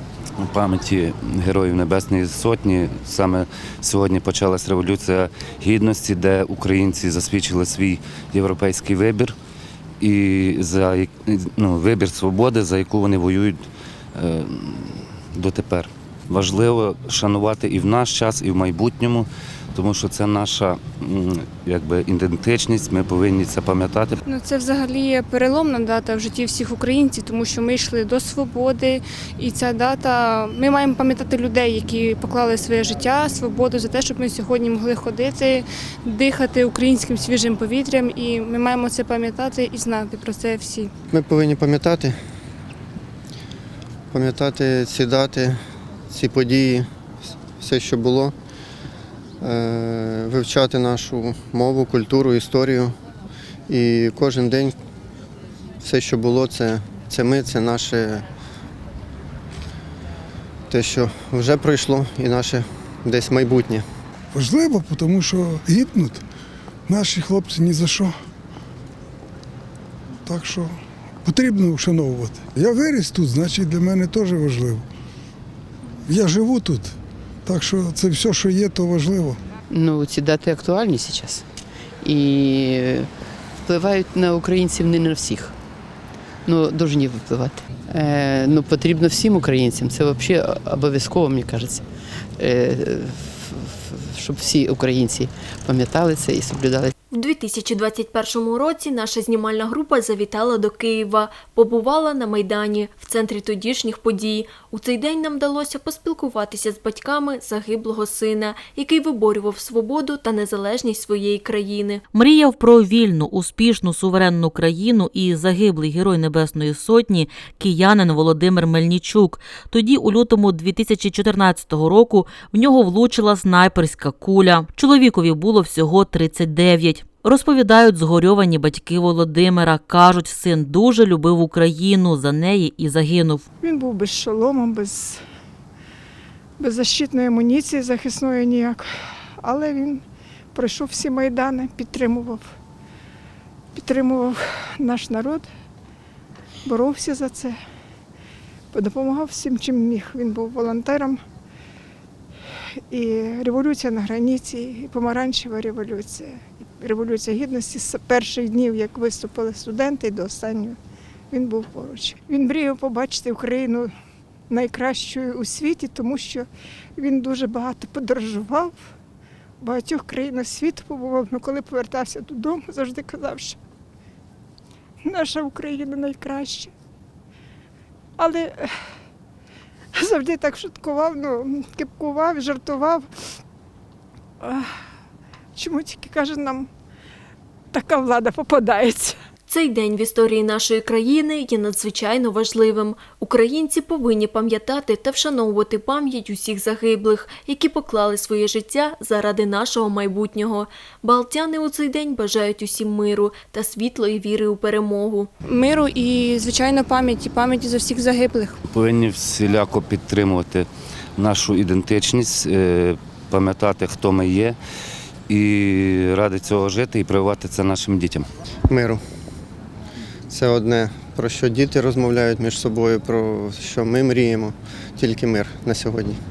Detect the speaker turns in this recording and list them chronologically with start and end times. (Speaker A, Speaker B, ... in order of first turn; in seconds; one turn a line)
Speaker A: 0.4-9.4
Speaker A: 10.0-13.6
Speaker A: 14.2-24.2
Speaker B: 24.2-40.9
Speaker C: 41.1-42.2
Speaker C: 44.1-45.6
Speaker C: 46.1-46.9
Speaker C: 47.6-48.3
Speaker C: 49.4-53.0
Speaker C: 53.7-54.8
Speaker C: 55.8-58.3
Speaker C: 60.7-63.9
Speaker D: 64.3-66.2
Speaker D: 66.9-68.1
Speaker D: 70.3-70.7
Speaker D: 71.2-74.9
Speaker D: 76.1-79.4
Speaker E: 79.7-81.5
Speaker E: 82.0-83.1
Speaker E: 83.6-85.5
Speaker E: 86.5-91.8
Speaker E: 92.4-96.9
Speaker F: 97.1-112.0
Speaker G: 112.1-133.4
Speaker H: 133.6-135.2
Speaker H: 136.6-140.0
Speaker H: 140.5-142.4
Speaker H: 143.7-145.5
Speaker H: 146.7-147.6
Speaker H: 148.7-151.2
Speaker H: 152.9-160.8
Speaker H: 161.3-163.9
Speaker H: 164.5-168.8
Speaker H: 169.6-173.6
Speaker H: 175.0-176.7
Speaker H: 178.2-178.8
Speaker H: 179.9-183.1
Speaker H: 184.4-184.7
Speaker H: 185.6-186.7
Speaker H: 187.7-189.2
Speaker F: 189.5-205.3
Speaker B: 205.4-208.6
Speaker A: 208.7-214.6
Speaker A: 215.3-218.3
Speaker C: 218.7-219.0
Speaker C: 220.3-226.2